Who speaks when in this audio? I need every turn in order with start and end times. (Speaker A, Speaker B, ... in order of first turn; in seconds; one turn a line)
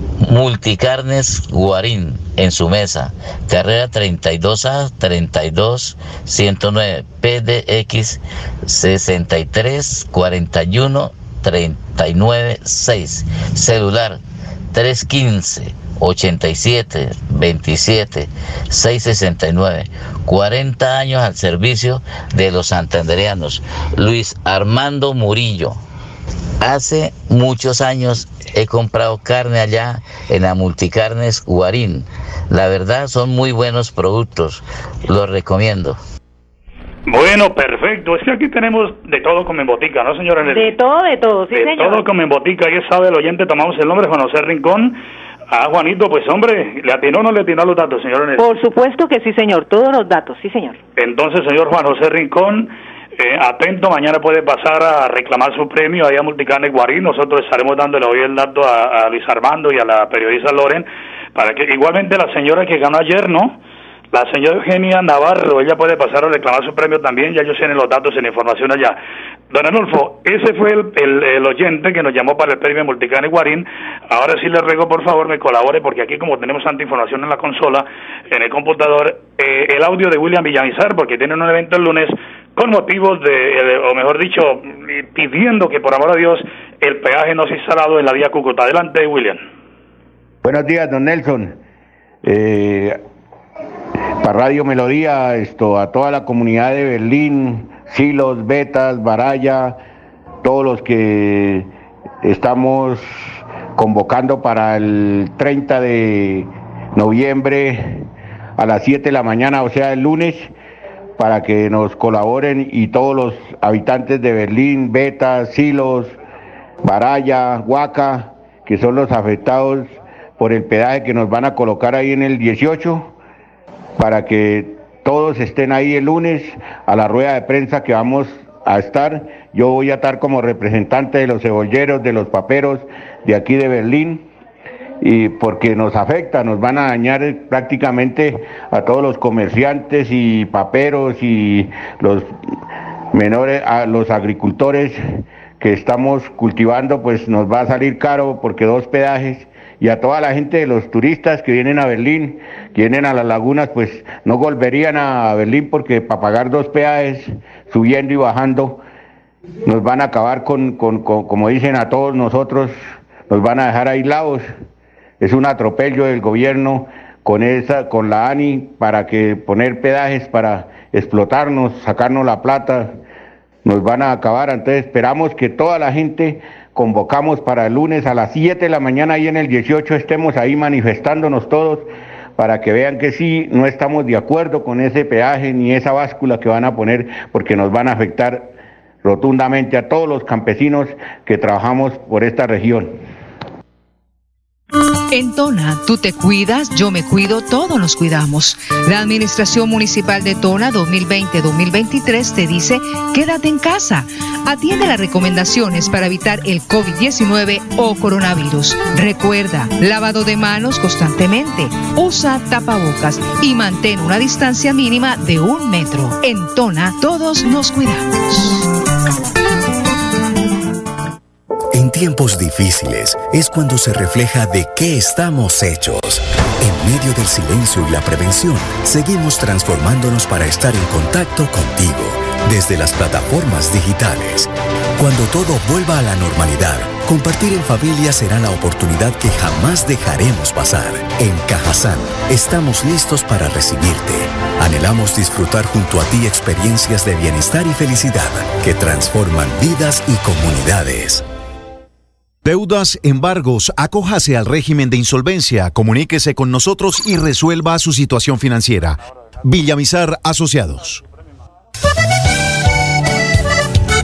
Speaker A: 0.2-14.2
Speaker A: 14.7-25.8
Speaker A: 26.6-36.0
Speaker B: 37.1-40.7
Speaker C: 40.5-42.0
Speaker B: 41.5-45.0
Speaker B: 45.5-48.4
Speaker C: 48.4-50.8
Speaker B: 51.0-63.6
Speaker B: 64.1-69.0
Speaker B: 69.5-89.4
Speaker D: 90.4-91.6
Speaker D: 92.2-93.0
Speaker D: 94.2-99.8
Speaker D: 100.4-101.7
Speaker D: 102.2-103.0
Speaker D: 103.8-110.5
Speaker D: 111.2-116.1
Speaker D: 116.8-123.1
Speaker D: 124.0-134.2
Speaker D: 135.0-142.3
Speaker D: 143.1-158.8
Speaker D: 159.7-162.7
Speaker D: 163.3-164.4
Speaker D: 165.2-172.9
Speaker D: 173.6-188.5
Speaker D: 189.0-193.0
Speaker E: 195.1-218.6
Speaker F: 221.7-251.2
Speaker G: 252.4-261.0